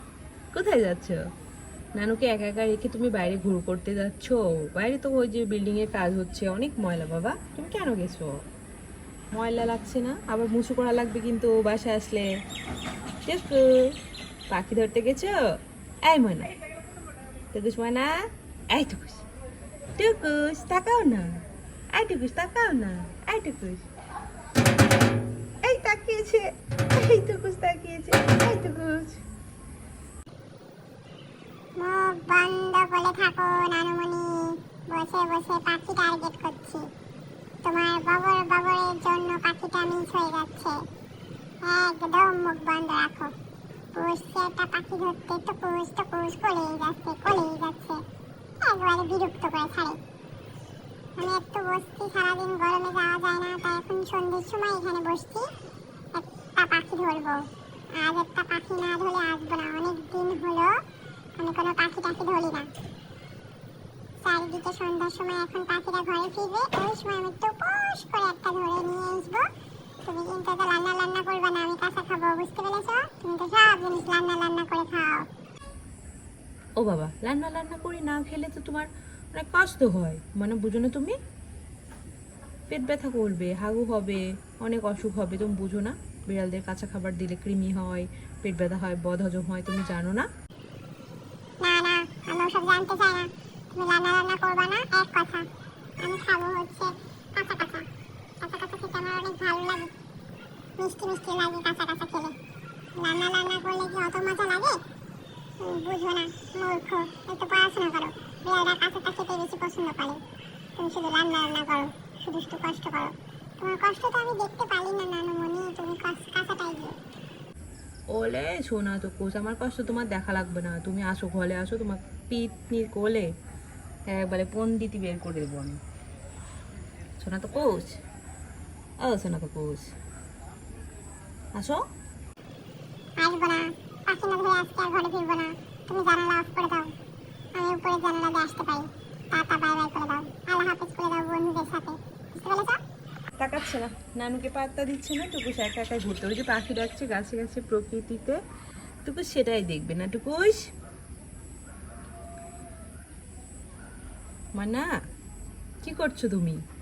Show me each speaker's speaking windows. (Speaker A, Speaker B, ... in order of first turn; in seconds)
Speaker A: 0.5-1.2, 1.9-8.4, 9.3-12.3, 13.2-13.9, 14.5-15.5, 16.0-16.5, 17.5-19.2, 19.9-21.4, 21.9-23.9, 25.6-29.2, 76.8-81.2, 82.7-90.3, 118.1-123.3, 124.1-125.8, 127.2-128.0, 129.0-129.9, 131.5-131.8, 143.4-148.4, 149.0-150.6, 154.5-154.9, 155.8-156.6
Speaker B: 31.8-36.9, 37.6-40.9, 41.6-43.3, 43.9-48.0, 48.6-50.0, 51.1-55.5, 56.1-60.8, 61.4-62.7, 64.2-69.5, 70.0-75.3, 91.6-95.5, 96.0-97.9, 98.4-99.9, 100.8-102.4, 103.0-104.8, 105.6-110.2, 110.8-117.0, 133.2-136.9, 137.5-142.8